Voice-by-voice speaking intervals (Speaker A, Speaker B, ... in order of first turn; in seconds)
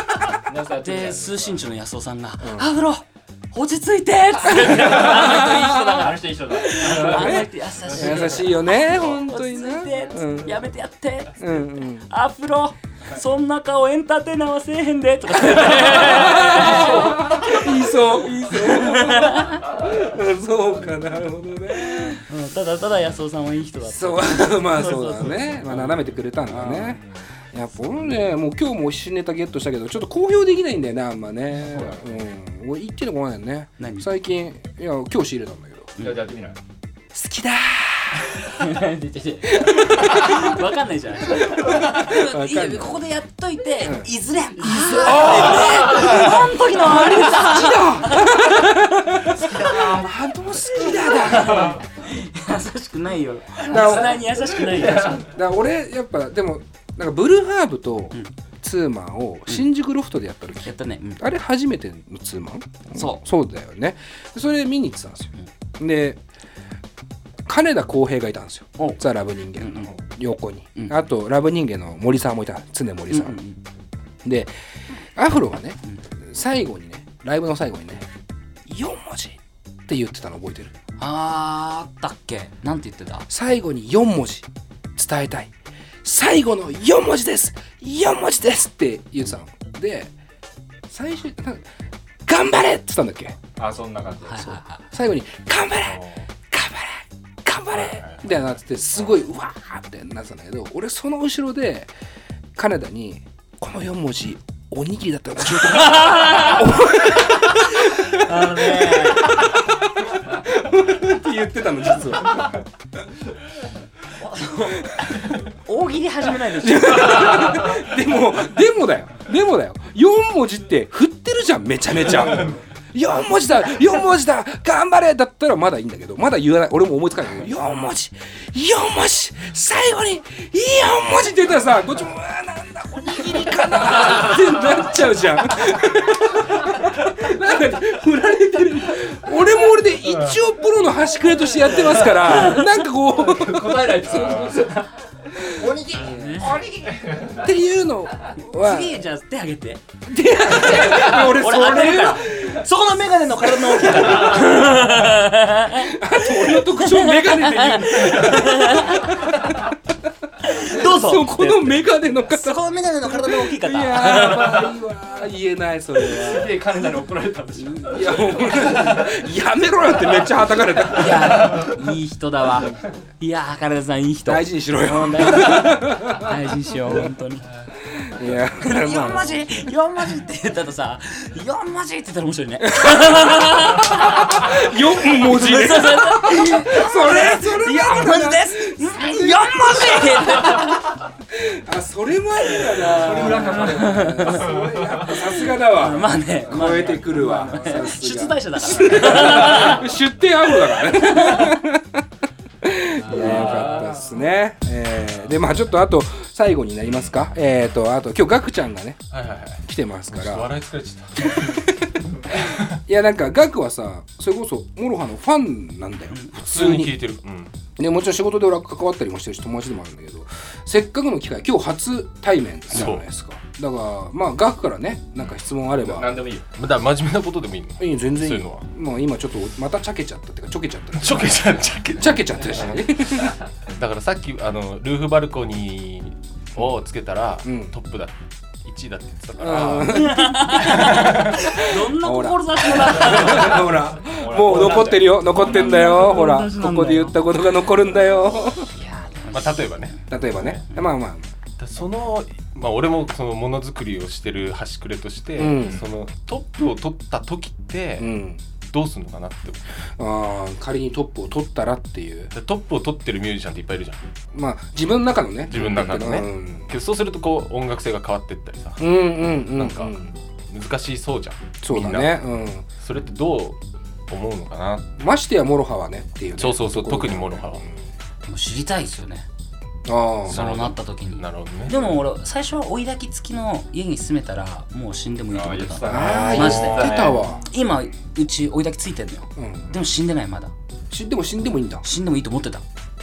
Speaker A: 0.2-1.6, 5.3-8.5, 31.6-32.0, 36.0-36.6, 54.6-55.1, 93.6-94.6, 141.8-147.4, 166.0-169.2, 192.7-194.8, 196.7-197.0, 203.0-204.2, 225.7-226.4, 244.1-245.3, 285.3-287.3
Speaker B: 0.8-19.7, 21.9-27.0, 33.8-34.1, 36.0-36.2, 38.5-50.1, 50.7-55.3, 60.6-61.2, 62.9-63.2, 69.6-69.9, 73.1-73.6, 81.0-83.2, 94.3-94.8, 105.7-106.6, 108.1-109.5, 114.2-117.7, 142.2-142.7, 145.9-146.6, 148.4-149.8, 150.4-159.4, 160.4-164.7, 170.9-177.4, 178.6-190.9, 192.7-194.5, 195.1-199.9, 200.8-201.6, 216.1-216.4, 239.8-243.7, 245.3-247.2, 248.9-250.0, 278.2-279.2, 280.2-286.9, 287.4-290.5, 291.8-292.6
Speaker C: 2.4-2.7, 4.6-5.8, 6.9-7.4, 7.9-10.6, 11.4-12.1, 15.3-22.2, 23.8-35.9, 37.1-38.8, 39.5-40.6, 41.3-43.0, 43.8-44.1, 44.6-51.8, 53.6-66.2, 67.5-73.4, 74.2-74.5, 75.1-78.1, 78.7-80.7, 83.3-85.5, 86.0-90.1, 90.9-91.7, 92.2-93.4, 94.9-101.9, 102.5-112.6, 116.6-144.7, 145.5-146.7, 147.3-149.0, 150.1-152.7, 153.5-155.1, 155.7-159.8, 160.5-166.6, 167.9-171.6, 174.2-176.3, 177.9-179.6, 182.8-190.7, 191.3-202.0, 202.6-209.0, 209.6-210.5, 211.2-217.0, 217.8-226.1, 227.8-233.4, 237.4-237.7, 239.4-248.8, 250.1-251.3, 255.3-255.9, 258.0-258.4, 260.0-262.3, 264.3-266.7, 268.8-270.1, 271.6-272.6, 275.0-277.7, 279.9-280.4, 285.8-287.4, 289.4-289.7, 290.9-291.8
Speaker D: 97.7-98.4, 206.9-207.2, 209.1-211.6, 212.3-212.8, 216.4-217.5, 222.7-223.0, 226.5-228.7, 230.9-241.4, 249.3-250.6, 251.6-258.2, 258.7-259.6, 262.3-264.0, 265.5-272.2, 272.8-273.6, 274.1-274.9, 276.4-277.6, 280.3-281.9, 285.9-287.1